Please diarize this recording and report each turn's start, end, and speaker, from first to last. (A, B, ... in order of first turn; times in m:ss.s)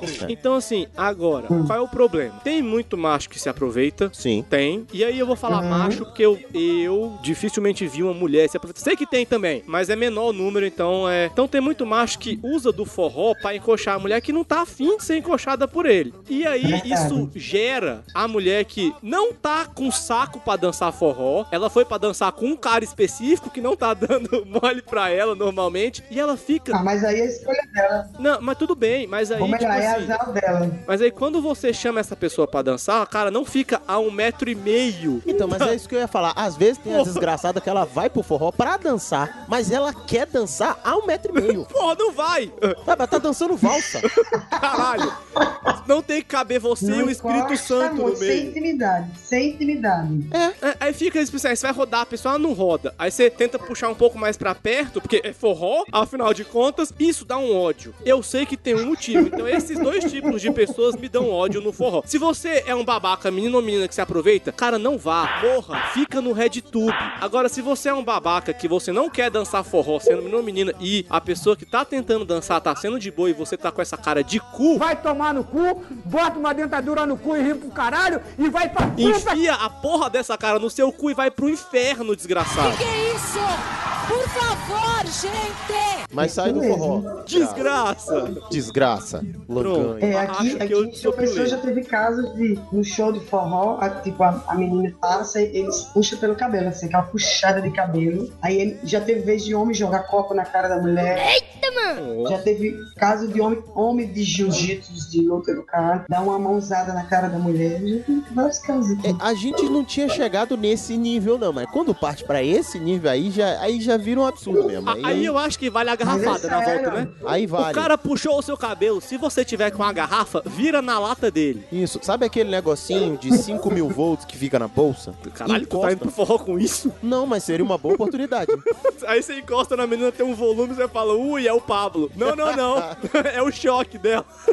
0:00.2-0:26.8 A
0:04.1-0:04.4 B
0:05.5-0:06.0 C
0:16.6-0:17.3 C
0:26.7-0:28.1 C
0:28.2-0:30.2 A
0:29.4-0:30.8 C
0:30.9-0:35.8 A
0:35.2-0:41.7 B
0:36.9-0:37.2 A
0:41.4-0:42.8 A
0:42.8-0:44.0 B
0:44.0-0:45.1 A
0:44.4-0:45.6 C
0:45.8-0:48.6 A
0:46.8-0:50.3 C
0:50.3-0:50.6 B
0:50.6-1:14.8 A
1:14.8-1:19.4 D
1:19.0-1:22.8 A
1:22.6-1:26.1 E
1:26.1-1:27.6 B
1:26.2-1:27.0 C
1:27.3-1:28.4 A
1:28.5-1:30.2 B
1:29.6-1:31.6 A
1:30.0-1:41.3 C
1:41.2-1:41.9 E
1:42.0-1:42.4 A
1:42.2-1:49.2 C
1:49.0-1:55.3 B
1:54.9-1:57.1 A
1:56.0-1:57.1 C
1:57.2-1:57.9 B
1:57.6-2:01.7 A
2:01.7-2:06.1 B
2:05.2-2:07.0 A
2:07.0-2:08.6 B
2:08.8-2:14.3 A
2:12.2-2:12.9 B